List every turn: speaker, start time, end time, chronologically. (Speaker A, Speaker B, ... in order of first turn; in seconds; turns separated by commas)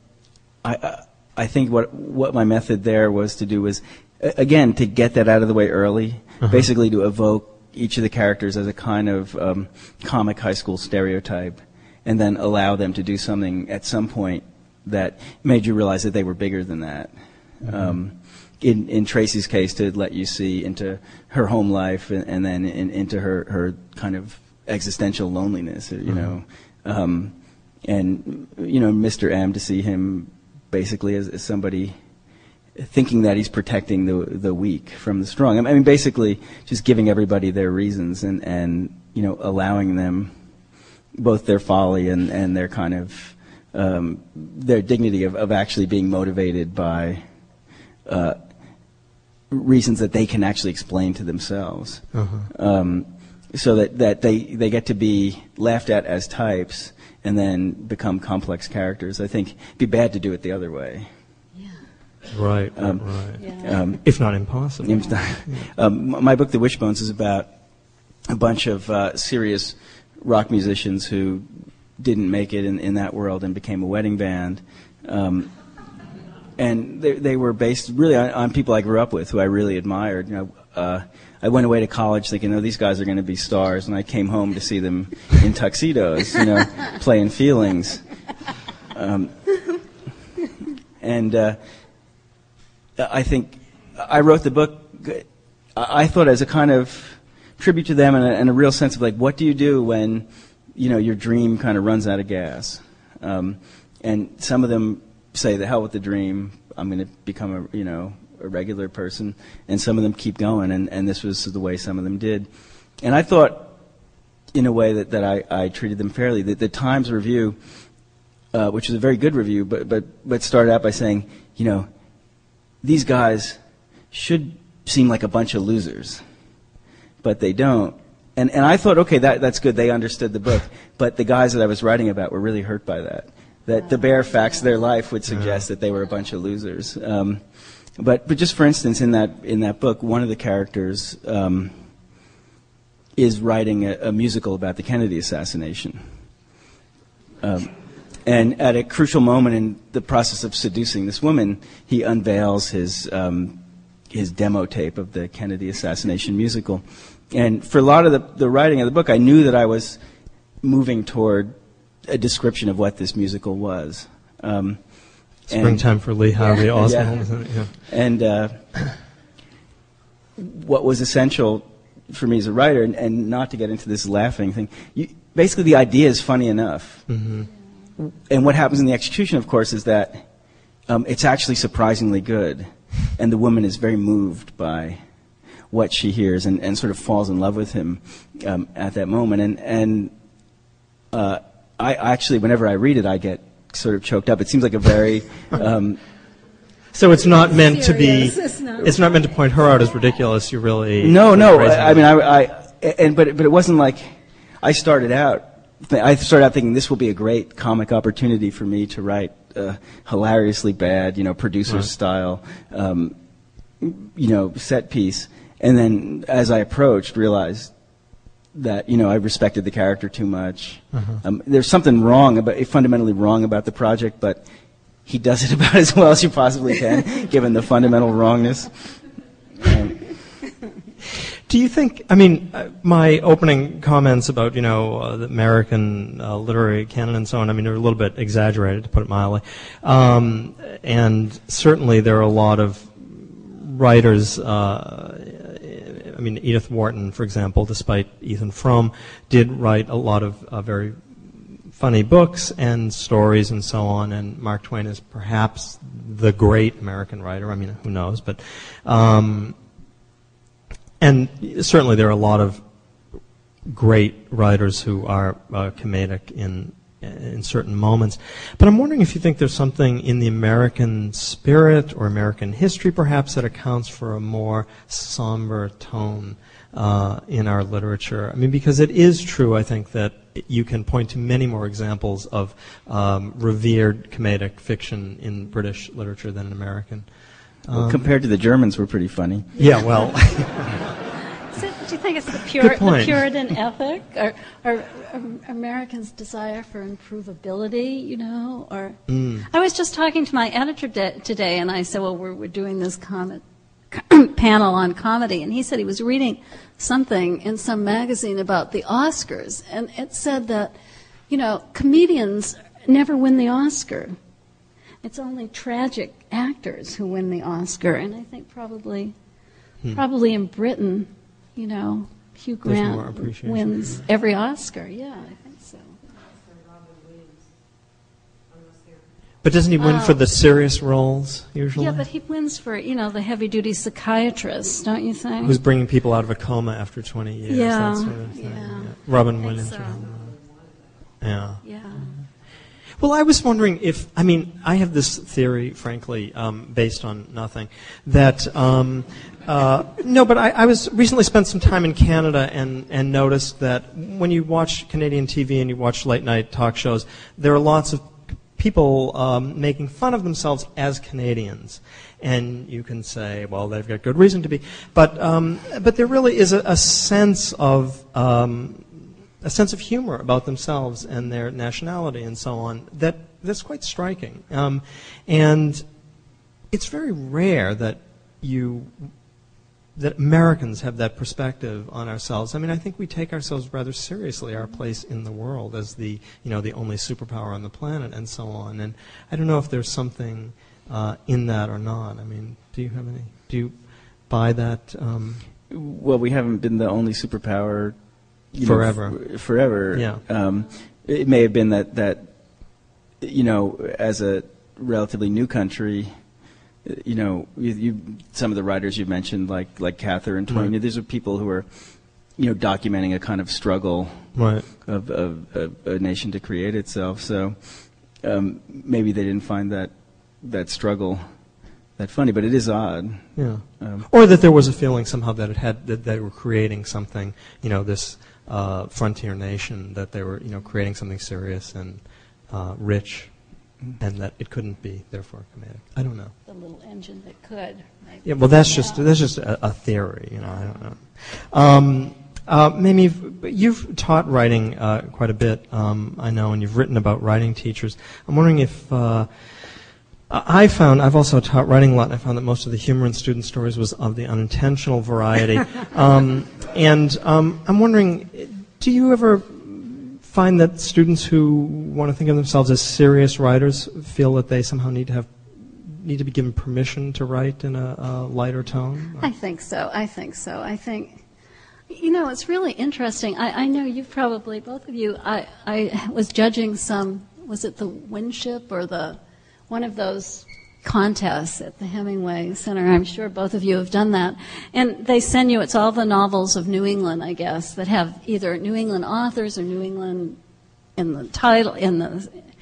Speaker A: 0.6-31.9, Speaker B: 6.4-6.7, Speaker B: 17.6-17.9, Speaker B: 26.1-26.3, Speaker A: 32.8-40.3, Speaker A: 41.1-47.2, Speaker A: 48.0-48.4, Speaker A: 49.5-61.1, Speaker B: 52.1-52.5, Speaker B: 62.3-63.5, Speaker A: 62.8-64.0, Speaker C: 63.4-63.7, Speaker B: 64.0-65.7, Speaker A: 64.8-67.5, Speaker A: 68.3-71.5, Speaker A: 72.0-75.5, Speaker A: 76.6-88.0, Speaker A: 88.9-89.3, Speaker A: 91.0-91.6, Speaker A: 93.0-112.5, Speaker A: 113.0-113.7, Speaker A: 114.5-117.6, Speaker A: 118.5-121.9, Speaker A: 122.8-123.6, Speaker A: 124.1-126.2, Speaker A: 127.2-137.4, Speaker B: 135.3-135.7, Speaker A: 138.0-141.8, Speaker A: 143.2-146.0, Speaker A: 147.4-147.7, Speaker A: 148.2-153.6, Speaker A: 154.1-160.0, Speaker A: 160.6-161.6, Speaker A: 162.1-164.8, Speaker A: 165.4-165.8, Speaker B: 165.5-167.7, Speaker A: 166.8-167.2, Speaker A: 167.8-168.6, Speaker A: 170.4-177.1, Speaker B: 177.1-177.5, Speaker A: 178.0-180.3, Speaker A: 180.9-185.0, Speaker A: 185.7-190.1, Speaker A: 191.1-196.0, Speaker B: 196.9-202.1, Speaker C: 197.9-198.9, Speaker A: 201.0-213.1, Speaker A: 213.8-217.7, Speaker A: 218.5-224.4, Speaker B: 220.9-221.2, Speaker A: 225.0-228.9, Speaker A: 229.6-230.1, Speaker B: 231.5-259.5, Speaker B: 261.0-262.6, Speaker B: 263.7-287.1, Speaker B: 287.7-288.1, Speaker A: 287.7-289.5, Speaker B: 289.6-290.7, Speaker C: 291.5-310.7, Speaker B: 292.6-293.2, Speaker B: 299.1-299.4, Speaker C: 311.3-314.1, Speaker C: 315.0-319.1, Speaker C: 319.9-325.9, Speaker B: 322.6-324.0, Speaker B: 329.4-332.0, Speaker C: 329.8-330.2, Speaker C: 331.8-335.6, Speaker B: 335.4-340.3, Speaker C: 337.5-340.0, Speaker B: 341.2-342.1, Speaker C: 341.6-342.1, Speaker B: 343.0-375.8, Speaker B: 376.7-378.9, Speaker B: 379.9-393.8, Speaker B: 394.3-395.4, Speaker A: 395.7-397.9, Speaker A: 398.5-402.3, Speaker B: 398.6-399.2, Speaker B: 399.9-400.2, Speaker A: 403.2-406.1, Speaker A: 406.8-411.7, Speaker A: 412.4-414.3, Speaker B: 414.4-414.6, Speaker A: 414.8-417.6, Speaker A: 418.2-421.2, Speaker A: 422.0-424.0, Speaker B: 423.4-433.3, Speaker B: 434.0-436.3, Speaker C: 436.4-439.0, Speaker B: 438.2-449.3, Speaker B: 450.3-469.3, Speaker C: 469.2-471.2, Speaker C: 471.9-490.4, Speaker C: 491.0-492.3